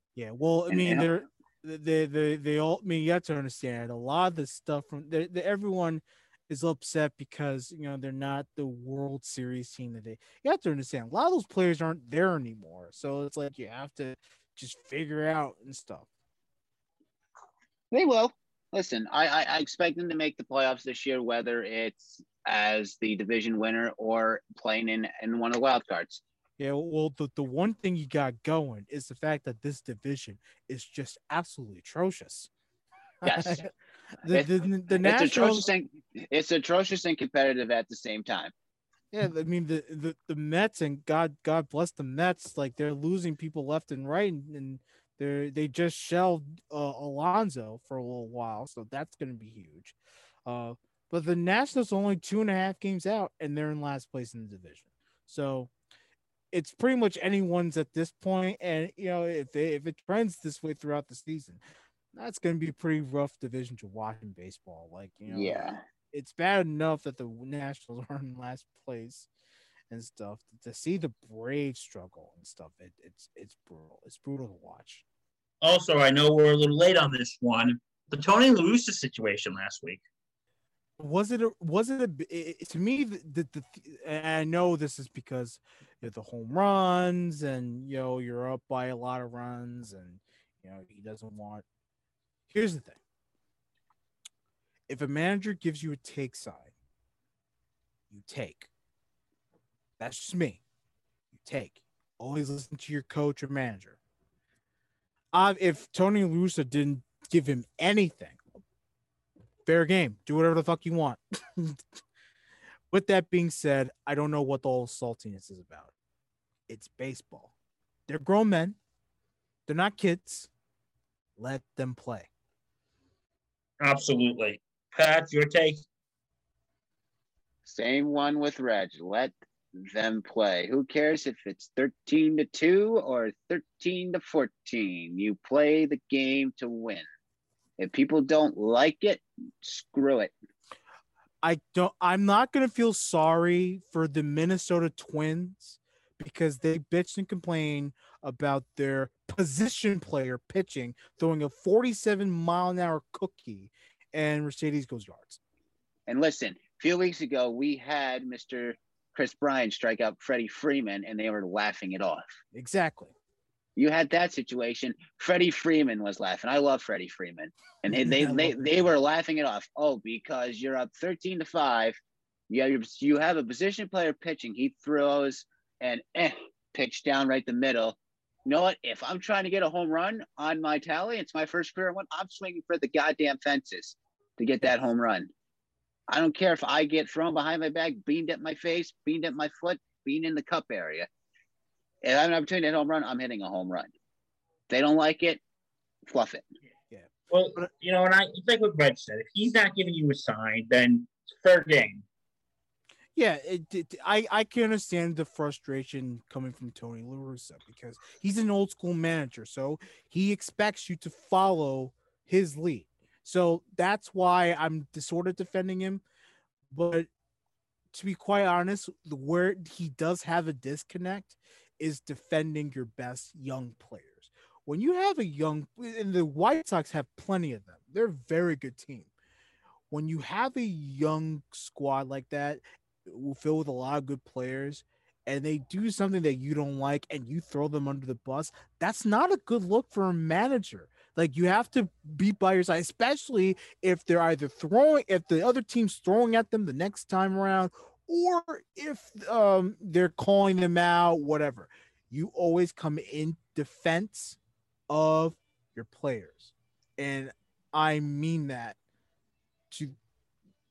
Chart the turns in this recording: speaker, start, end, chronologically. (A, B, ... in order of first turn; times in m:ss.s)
0:00.2-0:16.1 A
0:00.7-0:01.1 B
0:17.9-0:26.2 B
0:26.6-0:32.5 A
0:33.2-0:33.7 A
0:33.2-0:33.6 B
0:34.2-0:35.7 A
0:34.3-0:38.5 B
0:39.1-0:55.7 A
0:56.5-1:01.6 A
1:02.1-1:09.3 A
1:05.3-1:05.8 B
1:09.9-1:15.0 A
1:15.6-1:20.0 C
1:21.0-1:31.6 A
1:32.5-1:33.0 A
1:34.9-1:36.7 A
1:38.1-1:38.7 A
1:40.0-1:40.6 A
1:41.3-1:44.0 A
1:45.3-1:48.4 A
1:49.7-1:51.8 A
1:52.9-1:55.9 A
1:56.7-1:57.5 A
1:58.1-1:58.8 A
1:59.7-2:00.5 A
2:01.4-2:02.3 A
2:03.8-2:05.8 C
2:07.7-2:17.1 B
2:17.8-2:20.3 B
2:21.4-2:35.4 A
2:36.1-2:42.2 B
2:42.5-2:43.1 A
2:43.8-2:52.0 B
2:47.9-2:48.9 A
2:52.5-3:05.3 B
3:06.1-3:11.1 B
3:12.0-3:13.9 B
3:14.7-3:15.4 B
3:16.1-3:16.5 B
3:17.3-3:22.0 C
3:23.2-3:36.0 A
3:36.7-3:37.1 A
3:37.9-3:49.1 A
3:49.9-4:14.4 A
4:14.9-4:18.8 A
4:19.7-4:20.0 A